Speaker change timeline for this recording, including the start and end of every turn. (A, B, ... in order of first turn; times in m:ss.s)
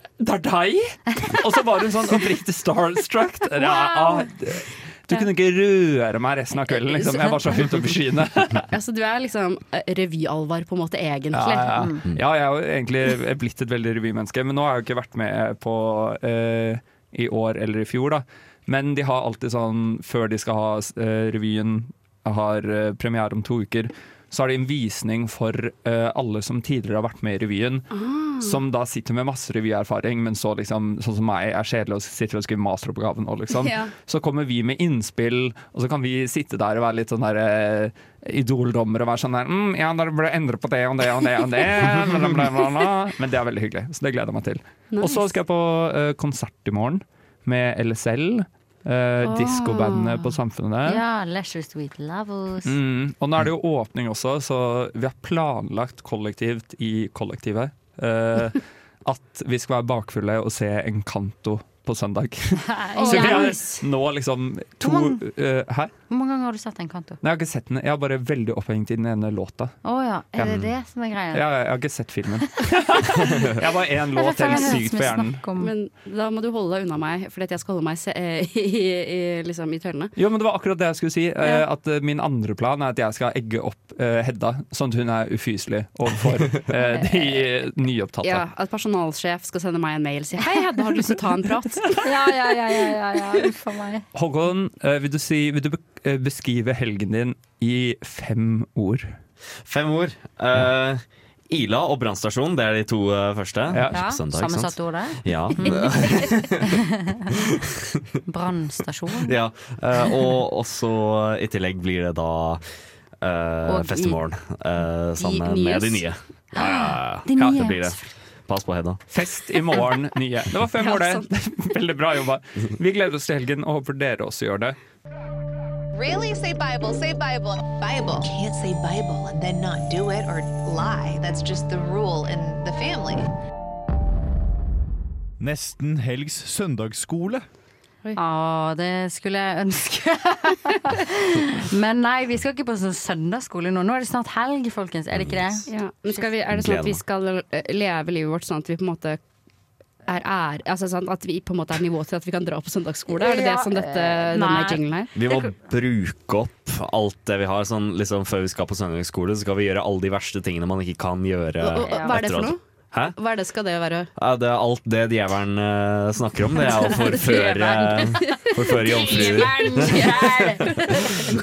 0:00.2-0:08.6 A
0:03.6-0:04.2 B
0:08.7-0:12.0 B
0:11.3-0:27.8 A
0:27.9-0:28.5 B
0:28.4-0:51.0 A
0:33.5-0:33.9 B
0:44.9-0:45.3 B
0:49.2-0:50.3 B
0:50.8-0:52.7 C
0:52.6-1:05.9 A
1:02.9-1:03.6 C
1:03.0-1:03.8 B
1:04.8-1:05.2 C
1:06.1-1:07.2 C
1:07.2-1:09.8 A
1:09.8-1:11.4 C
1:10.3-1:10.7 A
1:11.3-1:15.4 A
1:14.2-1:15.7 C
1:15.6-1:20.1 B
1:20.2-1:28.4 A
1:26.9-1:27.3 B
1:28.2-1:32.0 B
1:32.0-1:34.0 C
1:34.1-1:39.1 A
1:39.6-1:46.5 D
1:43.7-1:44.0 A
1:43.9-1:45.7 C
1:48.3-1:49.3 C
1:49.2-1:59.0 D
1:53.6-1:54.2 C
1:55.2-1:56.1 B
1:56.5-1:58.0 C
1:57.4-1:57.6 A
1:59.1-2:04.8 A
2:00.8-2:01.3 B
2:05.9-2:13.0 E
2:15.4-2:17.4 F
2:18.1-2:21.1 C
2:21.6-2:26.2 C
2:25.1-2:25.6 D
2:25.7-2:29.2 B
2:26.5-2:27.0 D
2:30.0-2:35.1 B
2:33.1-2:35.4 C
2:35.1-2:43.2 D
2:41.6-2:42.6 B
2:41.8-2:42.2 C
2:43.1-2:44.1 B
2:44.2-2:50.4 D
2:46.6-2:51.0 B
2:49.1-2:51.2 C